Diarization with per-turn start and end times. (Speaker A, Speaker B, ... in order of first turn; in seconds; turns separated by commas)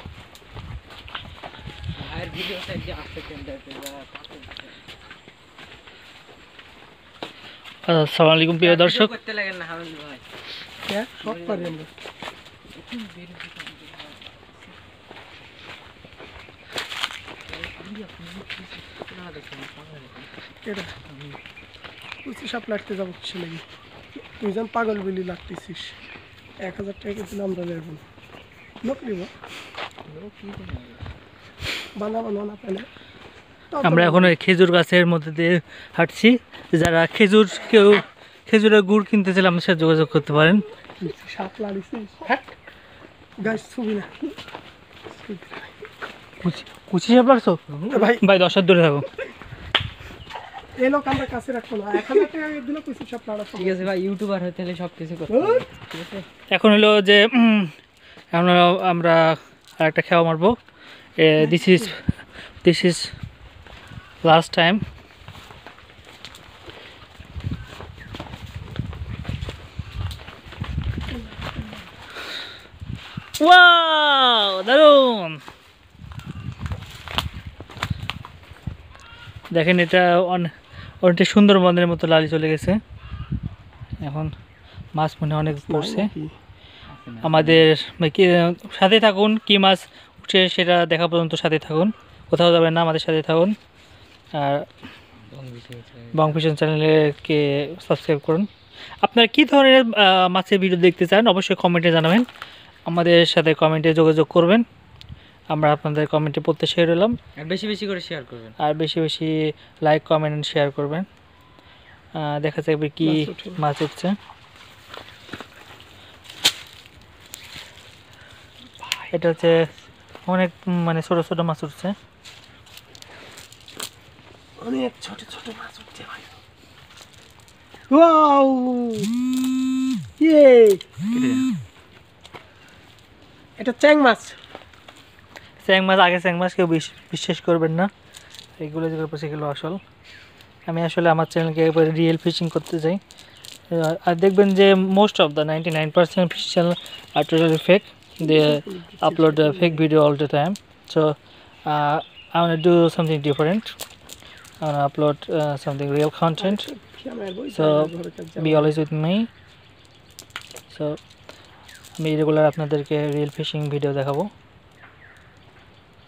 Speaker A: 1.9-4.7, Speaker B: 7.9-9.1, Speaker A: 8.6-10.2, Speaker C: 10.9-11.9, Speaker A: 11.2-11.8, Speaker A: 12.7-14.8, Speaker A: 17.5-20.3, Speaker C: 20.6-20.9, Speaker A: 21.1-21.4, Speaker C: 22.2-23.7, Speaker C: 24.2-26.0, Speaker C: 26.6-28.0, Speaker C: 28.8-29.3, Speaker A: 30.1-31.0, Speaker C: 32.0-32.9, Speaker C: 33.7-34.3, Speaker B: 33.8-40.6, Speaker C: 41.0-42.5, Speaker C: 43.4-44.1, Speaker C: 45.1-45.8, Speaker B: 46.4-47.6, Speaker A: 47.7-48.1, Speaker C: 47.9-48.2, Speaker B: 48.2-49.1, Speaker C: 50.8-53.9, Speaker A: 53.5-56.3, Speaker C: 55.3-55.6, Speaker B: 56.5-57.7, Speaker B: 58.3-60.5, Speaker B: 61.2-62.1, Speaker C: 61.4-61.9, Speaker B: 62.6-63.1, Speaker B: 64.2-64.8, Speaker C: 71.1-71.8, Speaker B: 73.4-75.4, Speaker B: 79.5-80.5, Speaker B: 81.0-82.8, Speaker B: 84.0-84.3, Speaker B: 85.0-86.1, Speaker C: 85.7-86.3, Speaker A: 86.9-87.7, Speaker B: 87.2-93.5, Speaker B: 94.3-94.7, Speaker A: 95.3-96.4, Speaker B: 96.1-98.5, Speaker B: 99.0-102.3, Speaker B: 102.9-104.6, Speaker B: 105.5-107.2, Speaker A: 107.4-108.6, Speaker B: 108.6-111.1, Speaker B: 112.2-114.2, Speaker C: 113.0-113.6, Speaker B: 119.1-119.6, Speaker B: 120.3-122.0, Speaker C: 124.6-126.3, Speaker C: 127.9-129.1, Speaker C: 130.2-130.8, Speaker B: 131.1-131.5, Speaker C: 133.6-134.4, Speaker B: 135.6-137.9, Speaker B: 138.6-139.8, Speaker B: 140.7-143.0, Speaker B: 143.7-151.2, Speaker C: 148.2-149.8, Speaker B: 151.7-153.7, Speaker B: 154.6-156.7, Speaker C: 156.4-158.7, Speaker B: 157.5-159.3, Speaker B: 160.7-161.0, Speaker B: 162.0-164.3